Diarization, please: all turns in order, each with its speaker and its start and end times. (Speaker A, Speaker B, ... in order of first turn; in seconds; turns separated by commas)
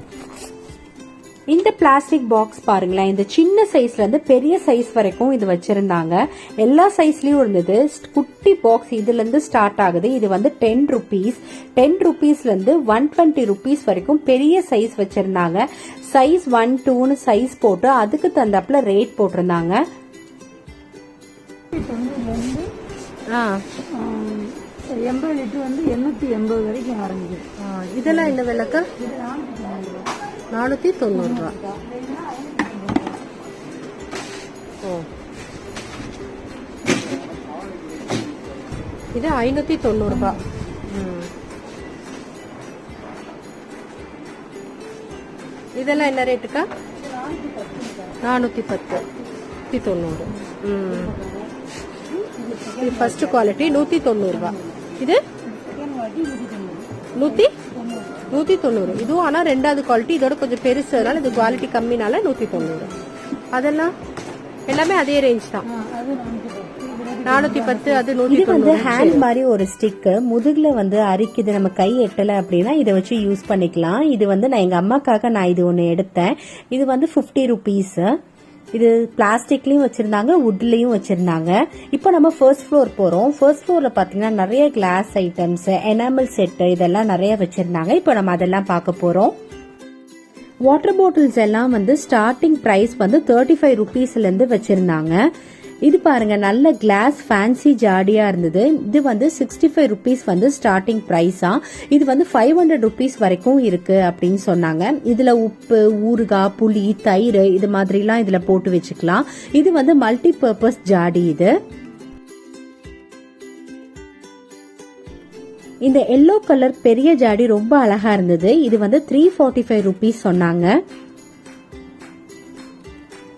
Speaker A: 1.5-19.8, Speaker B: 21.7-22.7, Speaker C: 23.3-23.6, Speaker B: 23.9-27.5, Speaker C: 27.6-28.9, Speaker B: 29.0-30.1, Speaker C: 30.5-31.6, Speaker C: 39.1-41.3, Speaker C: 45.8-46.7, Speaker B: 47.2-48.1, Speaker C: 48.2-49.0, Speaker C: 49.7-51.2, Speaker B: 52.2-53.2, Speaker C: 52.8-55.2, Speaker B: 55.6-57.1, Speaker C: 57.2-57.5, Speaker B: 57.9-58.2, Speaker C: 58.3-62.9, Speaker C: 63.5-63.9, Speaker C: 64.7-65.7, Speaker B: 65.8-67.7, Speaker C: 67.2-69.2, Speaker A: 68.2-78.1, Speaker A: 78.7-89.3, Speaker A: 90.6-95.2, Speaker A: 95.8-111.5, Speaker A: 115.8-120.7